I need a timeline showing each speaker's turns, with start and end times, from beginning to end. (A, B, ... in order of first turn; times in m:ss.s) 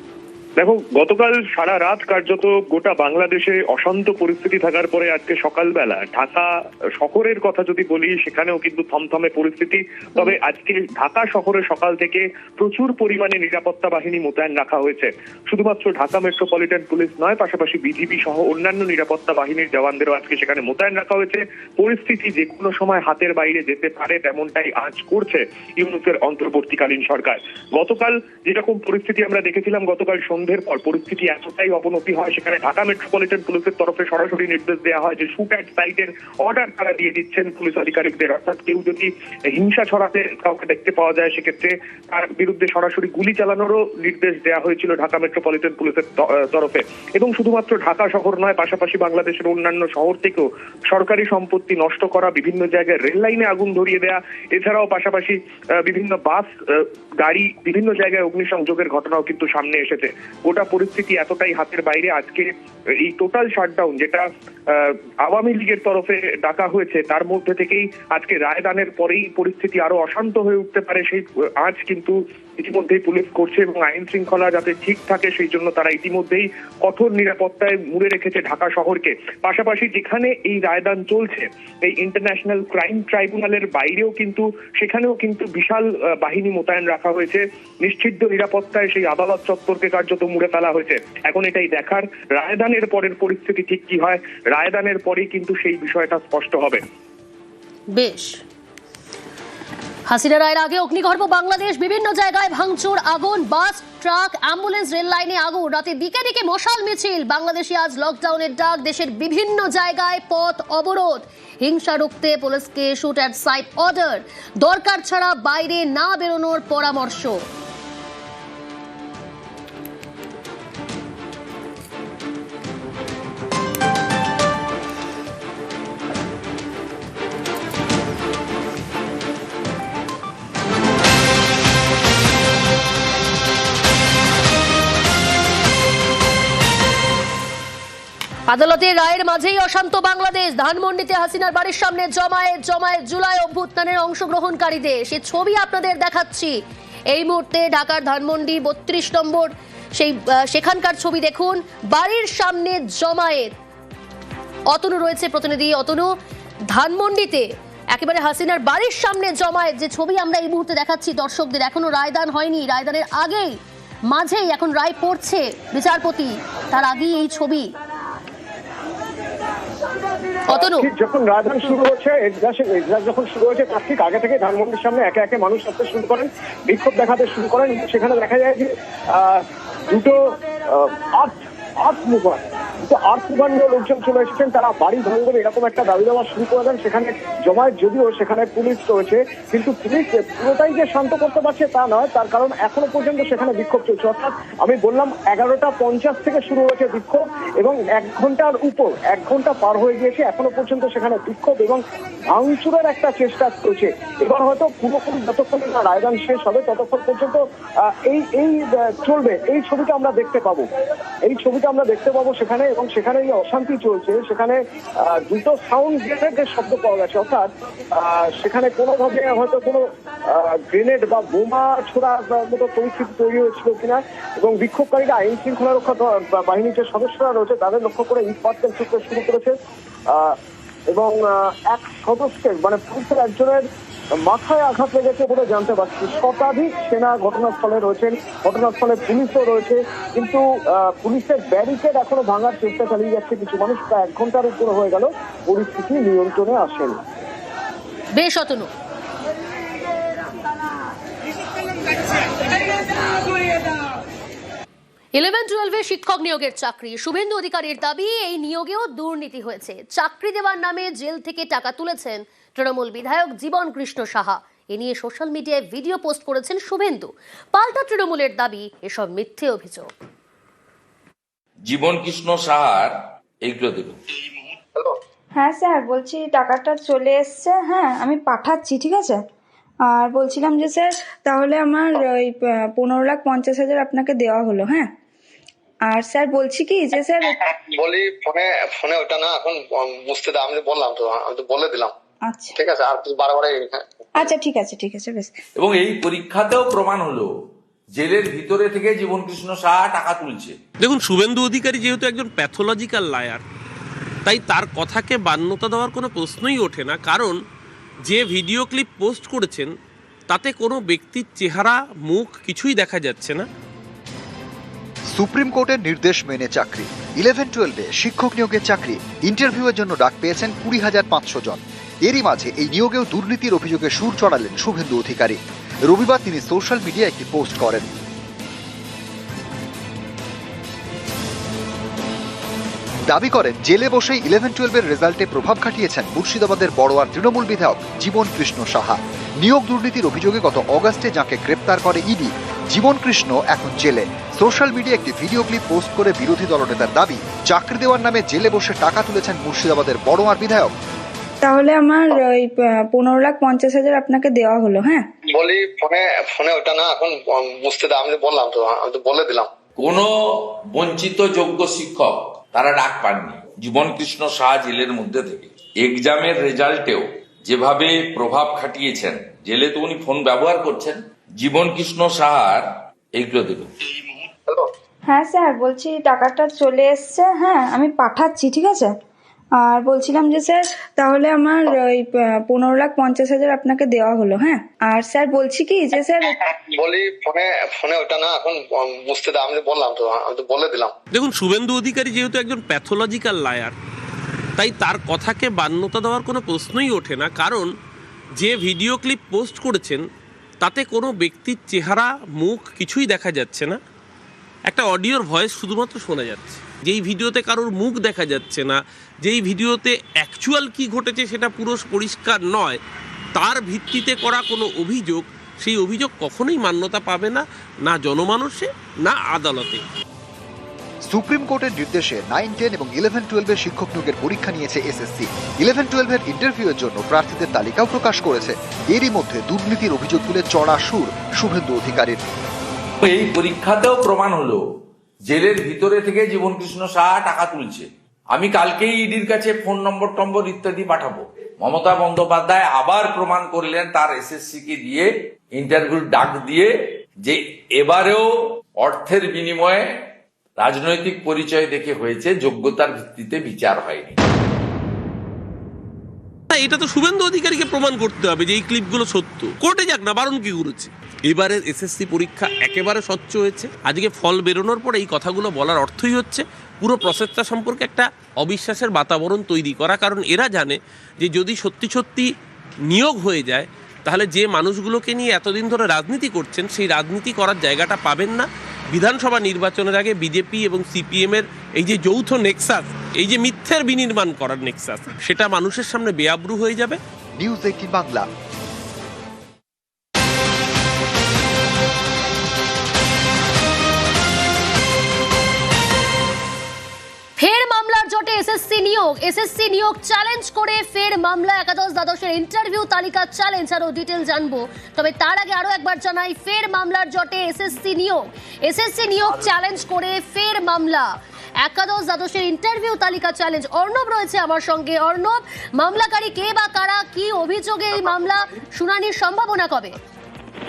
0:00.6-1:36.8 A
1:37.9-1:38.4 B
1:40.1-1:57.4 B
2:18.5-2:26.6 B
2:27.1-2:33.5 B
2:34.7-2:36.1 B
2:36.7-2:43.6 B
2:44.1-2:47.7 B
2:50.5-2:50.9 B
2:50.5-3:30.7 C
3:31.2-3:49.6 C
3:50.1-3:50.4 C
3:50.9-3:53.7 C
3:54.2-4:07.0 C
4:08.2-4:08.7 B
4:15.2-4:29.9 B
4:31.7-4:34.0 D
4:35.4-4:39.2 E
4:39.9-4:44.9 E
4:45.9-4:47.3 E
4:47.3-4:51.9 F
4:52.3-4:52.6 E
4:52.5-4:54.1 F
4:54.2-4:55.4 E
4:55.6-4:57.3 D
4:58.0-5:00.6 D
5:00.8-5:03.4 G
5:04.2-5:07.4 G
5:08.1-5:09.7 G
5:10.3-5:13.5 G
5:15.1-5:27.9 H
5:33.1-5:50.7 H
5:51.4-5:55.1 E
5:55.3-5:59.5 F
5:59.8-6:13.7 D
6:15.1-6:19.0 E
6:19.6-6:26.3 E
6:26.3-6:30.9 F
6:31.1-6:33.7 G
6:34.6-6:37.7 G
6:38.4-6:40.0 G
6:40.6-6:43.8 G
6:44.7-6:52.8 G
6:53.4-6:59.8 G
7:01.1-7:12.2 H
7:13.0-7:14.6 D
7:15.3-7:26.7 D
7:27.2-7:29.9 D
7:30.6-7:34.2 D
7:36.5-7:52.3 G
7:52.9-8:07.0 G
8:07.4-8:08.3 H
8:17.4-8:40.0 B